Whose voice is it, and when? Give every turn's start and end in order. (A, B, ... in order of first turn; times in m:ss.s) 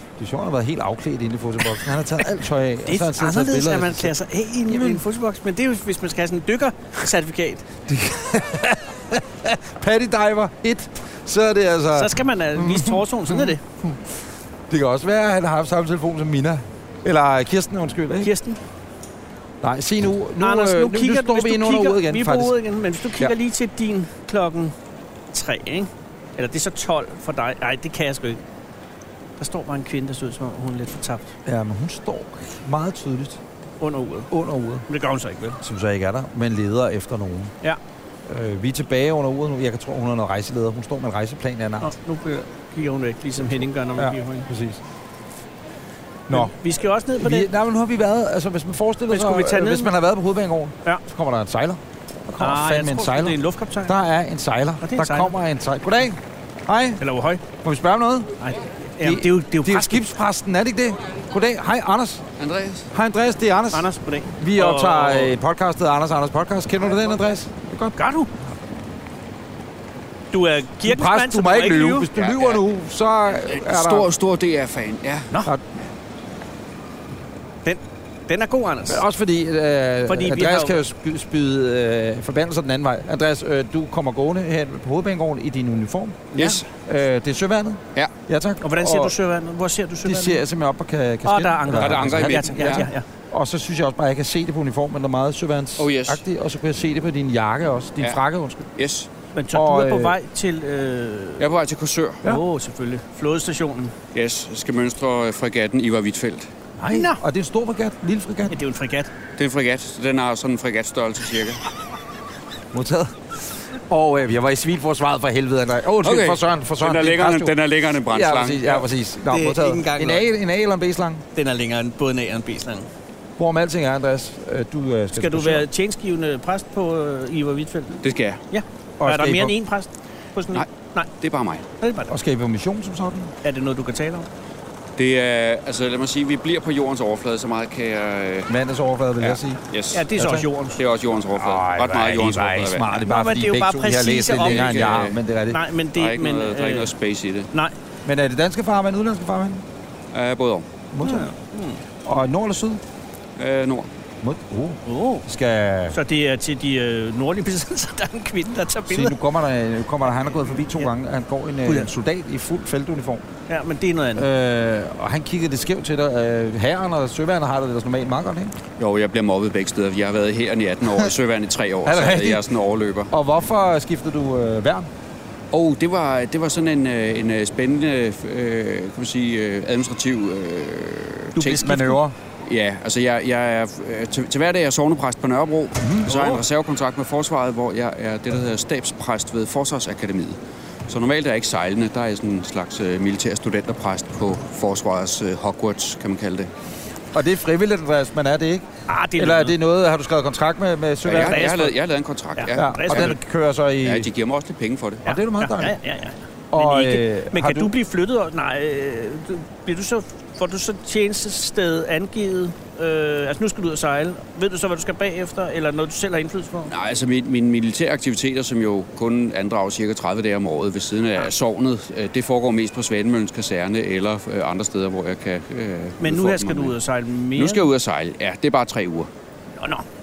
0:00.2-0:04.1 A
0:02.8-0:07.6 B
0:04.7-0:05.0 A
0:07.9-0:14.1 A
0:11.9-0:13.6 B
0:14.7-0:18.3 A
0:18.2-0:18.6 B
0:19.6-0:22.6 A
0:20.4-0:24.7 B
0:25.3-0:28.4 B
0:29.4-0:31.3 B
0:31.5-0:33.4 A
0:33.8-0:34.3 B
0:34.3-0:34.9 A
0:34.9-0:35.6 B
0:35.6-0:37.5 A
0:38.3-0:41.9 A
0:41.8-0:44.5 B
0:44.0-0:44.8 A
0:46.3-0:46.5 A
0:46.3-0:47.5 B
0:47.2-0:57.0 A
0:49.1-0:49.9 B
0:52.4-0:54.0 B
0:54.8-0:55.4 B
0:57.0-0:57.4 B
0:57.6-0:58.3 A
0:58.4-1:00.0 B
0:59.0-1:02.2 A
1:02.4-1:02.9 C
1:02.9-1:08.0 A
1:03.7-1:05.4 B
1:08.0-1:08.3 B
1:10.3-1:12.1 B
1:10.8-1:14.1 A
1:12.2-1:12.6 C
1:13.4-1:15.3 C
1:17.6-1:19.0 B
1:18.9-1:29.1 A
1:20.1-1:20.8 B
1:26.4-1:26.7 C
1:28.6-1:30.4 B
1:30.0-1:38.7 A
1:31.2-1:33.0 B
1:31.7-1:32.9 C
1:35.8-1:36.2 C
1:38.8-1:39.1 C
1:39.4-1:41.4 B
1:39.5-1:40.2 A
1:41.4-1:42.2 C
1:42.2-1:43.9 B
1:44.1-1:46.5 C
1:46.8-1:48.6 A
1:46.9-1:47.2 B
1:48.5-1:49.1 B
1:49.4-1:51.6 C
1:52.7-1:57.5 A
1:56.0-1:58.8 C
1:58.1-2:01.2 A
1:59.3-2:00.3 B
2:01.4-2:02.9 B
2:03.4-2:05.7 A
2:05.1-2:11.1 B
2:08.0-2:08.4 C
2:09.0-2:09.6 A
2:11.2-2:11.6 C
2:11.8-2:12.1 B
2:12.1-2:13.3 A
2:13.4-2:14.3 B
2:15.0-2:18.5 C
2:18.5-2:19.6 A
2:19.2-2:20.1 C
2:19.9-2:20.8 B
2:20.2-2:20.5 A
2:20.8-2:23.0 C
2:21.3-2:25.6 A
2:23.0-2:26.9 B
2:24.4-2:25.2 C
2:25.9-2:27.5 C
2:28.0-2:29.6 A
2:30.1-2:30.7 C
2:30.9-2:31.3 A
2:31.0-2:31.8 B
2:32.0-2:32.8 A
2:33.4-2:33.9 C
2:34.2-2:36.0 A
2:34.9-2:35.3 B
2:35.9-2:39.2 B
2:38.9-2:43.2 A
2:41.6-2:41.9 B
2:43.5-2:44.3 B
2:44.2-2:48.6 A
2:48.8-2:53.1 C
2:51.9-2:52.4 A
2:53.1-2:54.9 A
2:55.5-3:01.8 C
3:01.4-3:02.0 B
3:01.5-3:02.2 A
3:02.5-3:16.5 C
3:05.8-3:06.2 A
3:17.1-3:21.6 A
3:18.9-3:19.6 B
3:21.0-3:23.2 C
3:21.1-3:21.8 B
3:22.4-3:23.2 B
3:22.6-3:24.1 A
3:23.8-3:25.0 C
3:25.0-3:25.8 A
3:25.0-3:36.7 B
3:26.5-3:27.7 A
3:36.7-3:46.8 C
3:46.0-3:47.6 B
3:47.4-3:49.1 C
3:49.6-3:49.8 B